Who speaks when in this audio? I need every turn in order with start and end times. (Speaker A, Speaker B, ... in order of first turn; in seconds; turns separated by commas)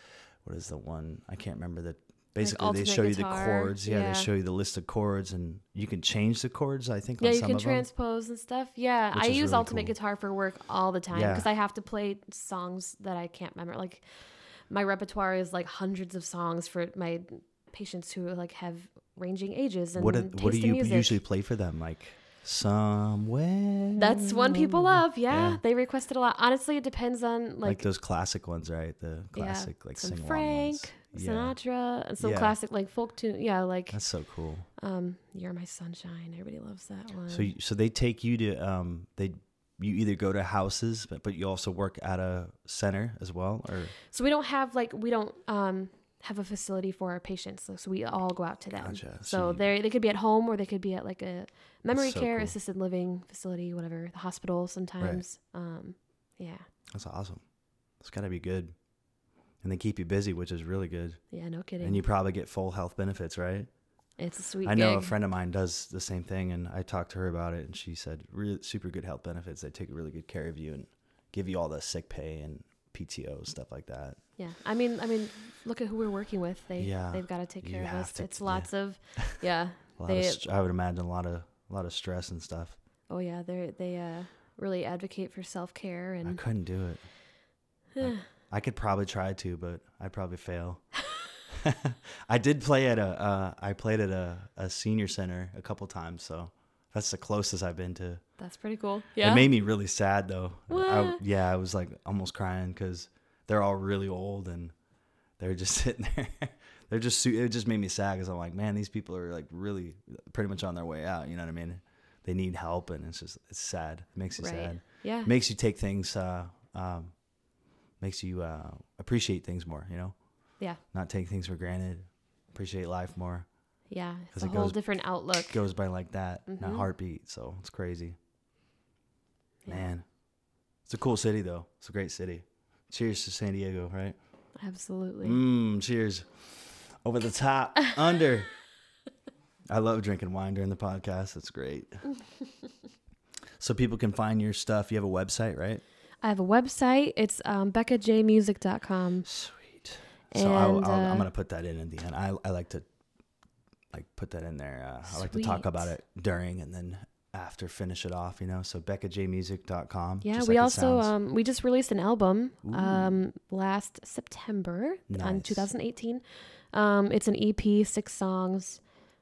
Speaker A: 0.4-7.9, Speaker B: 2.4-4.3, Speaker B: 7.2-21.2, Speaker A: 9.1-9.9, Speaker A: 11.1-11.5, Speaker A: 20.0-25.6, Speaker B: 24.0-27.9, Speaker A: 27.6-31.6, Speaker B: 29.4-34.0, Speaker A: 32.2-32.5, Speaker A: 33.9-34.7, Speaker B: 34.8-37.5, Speaker A: 37.3-43.9, Speaker B: 44.1-56.7, Speaker A: 48.8-49.7, Speaker A: 51.9-52.5, Speaker A: 56.9-57.4, Speaker A: 58.0-58.7, Speaker A: 59.6-61.2, Speaker B: 61.3-62.0, Speaker A: 61.8-63.7, Speaker B: 64.2-65.2, Speaker A: 64.6-74.2, Speaker B: 74.4-80.4, Speaker A: 76.8-79.4, Speaker A: 80.0-82.8, Speaker B: 83.1-86.4, Speaker A: 86.2-87.1, Speaker B: 88.0-88.2, Speaker A: 88.0-90.8, Speaker A: 91.5-98.2, Speaker B: 98.4-99.5, Speaker A: 99.2-104.7, Speaker B: 100.7-101.2, Speaker A: 105.4-117.1, Speaker B: 114.4-115.3, Speaker A: 118.0-120.2, Speaker A: 120.9-123.5, Speaker B: 123.9-125.6, Speaker A: 124.3-124.8, Speaker A: 125.5-128.2, Speaker B: 126.5-126.9, Speaker A: 129.7-130.1, Speaker A: 130.9-134.2, Speaker B: 134.6-135.4, Speaker A: 135.2-138.5, Speaker A: 139.7-142.0, Speaker A: 143.6-145.8, Speaker B: 146.2-149.3, Speaker A: 149.2-152.8, Speaker B: 150.3-151.3, Speaker A: 153.9-161.1, Speaker B: 155.1-155.9, Speaker B: 160.2-168.8, Speaker A: 162.6-163.2, Speaker A: 165.1-165.7